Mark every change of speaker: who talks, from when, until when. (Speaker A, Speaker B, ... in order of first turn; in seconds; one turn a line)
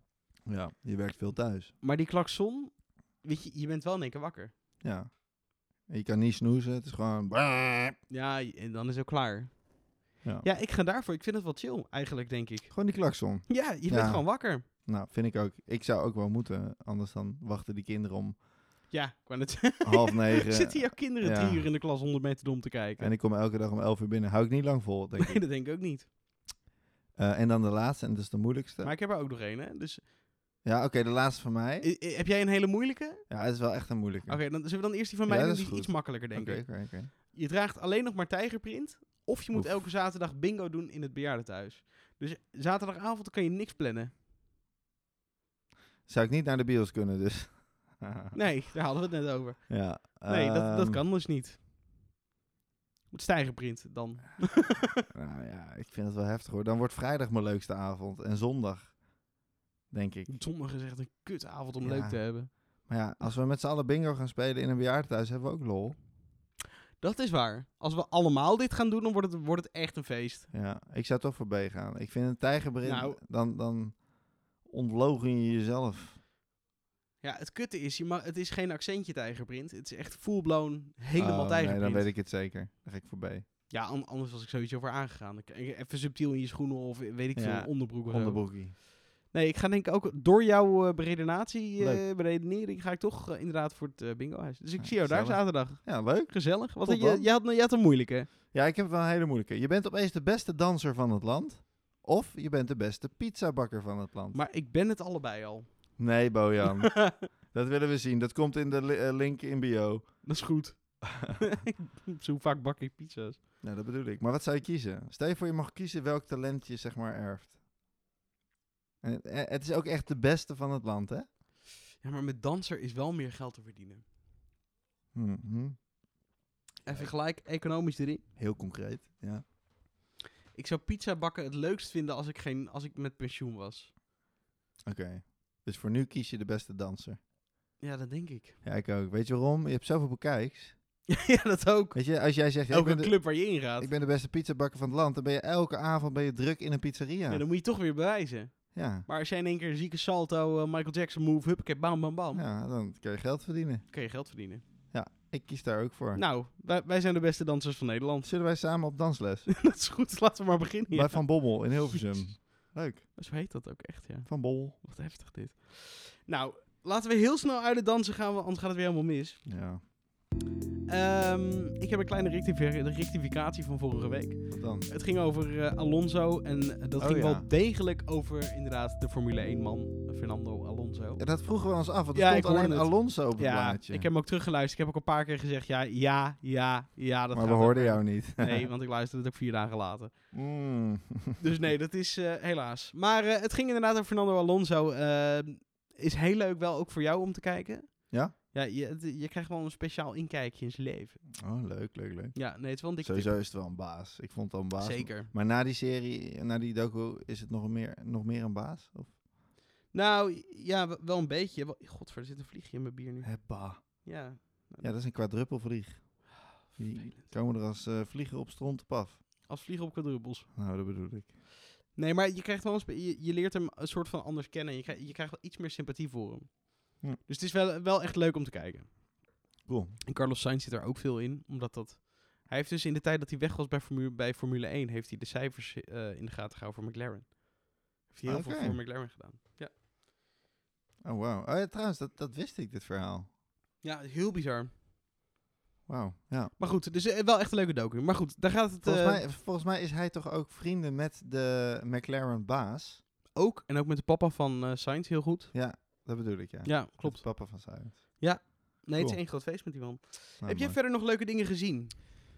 Speaker A: 0.5-1.7
Speaker B: 1.8-4.5
Speaker A: 4.8-8.0
Speaker B: 8.1-9.7
Speaker B: 10.4-12.8
Speaker A: 12.7-18.4
Speaker B: 13.5-14.7
Speaker B: 18.9-23.1
Speaker A: 19.8-21.7
Speaker A: 23.0-25.4
Speaker B: 25.2-26.1
Speaker A: 27.2-28.9
Speaker B: 28.8-30.1
Speaker A: 30.6-31.9
Speaker B: 31.8-33.3
Speaker A: 33.3-37.1
Speaker B: 34.3-44.1
Speaker A: 39.5-39.9
Speaker A: 46.1-48.4
Speaker B: 48.3-51.6
Speaker A: 49.7-51.0
Speaker B: 53.1-55.0
Speaker A: 55.1-59.0
Speaker A: 59.9-60.4
Speaker B: 60.3-62.9
Speaker A: 61.8-66.0
Speaker B: 67.0-70.5
Speaker A: 70.5-76.2
Speaker B: 72.8-73.2
Speaker B: 77.2-82.1
Speaker A: 81.2-83.5
Speaker B: 83.7-98.3
Speaker A: 87.3-88.8
Speaker A: 91.8-92.0
Speaker A: 94.8-97.3
Speaker A: 98.5-104.4
Speaker B: 104.3-106.0
Speaker A: 106.0-110.4
Speaker B: 107.0-107.3
Speaker B: 110.2-113.4
Speaker A: 113.6-117.6
Speaker A: 119.0-121.3
Speaker B: 122.0-124.0
Speaker A: 125.1-125.9
Speaker A: 126.8-127.1
Speaker B: 126.8-128.2
Speaker A: 128.4-129.4
Speaker B: 130.5-133.9
Speaker A: 134.9-137.2
Speaker B: 137.8-138.6
Speaker A: 138.6-140.8
Speaker B: 141.1-143.9
Speaker A: 141.9-147.4
Speaker B: 147.3-152.4
Speaker A: 148.7-149.1
Speaker A: 152.3-153.9
Speaker B: 153.9-154.6
Speaker A: 154.9-156.2
Speaker B: 156.1-158.3
Speaker A: 158.2-159.6
Speaker B: 159.5-162.4
Speaker A: 160.9-163.1
Speaker B: 163.2-169.5
Speaker A: 164.3-164.8
Speaker A: 169.5-169.8
Speaker B: 170.9-181.2
Speaker A: 174.5-174.9
Speaker A: 177.0-177.5
Speaker A: 181.2-184.1
Speaker B: 182.1-190.2
Speaker A: 187.3-188.7
Speaker A: 190.3-191.4
Speaker B: 191.4-201.2
Speaker A: 201.4-209.2
Speaker B: 202.3-203.4
Speaker B: 204.8-205.3
Speaker B: 209.9-214.9
Speaker A: 213.2-214.1
Speaker A: 214.8-219.2
Speaker B: 216.5-217.2
Speaker B: 219.5-220.5
Speaker A: 220.6-221.4
Speaker B: 221.9-229.4
Speaker A: 229.7-230.0
Speaker B: 230.1-239.7
Speaker A: 238.3-238.8
Speaker A: 241.0-243.3
Speaker B: 243.8-244.7
Speaker A: 245.9-246.6
Speaker B: 246.6-249.2
Speaker A: 248.8-253.0
Speaker B: 253.3-255.8
Speaker A: 255.5-259.2
Speaker B: 256.6-261.9
Speaker A: 260.4-260.8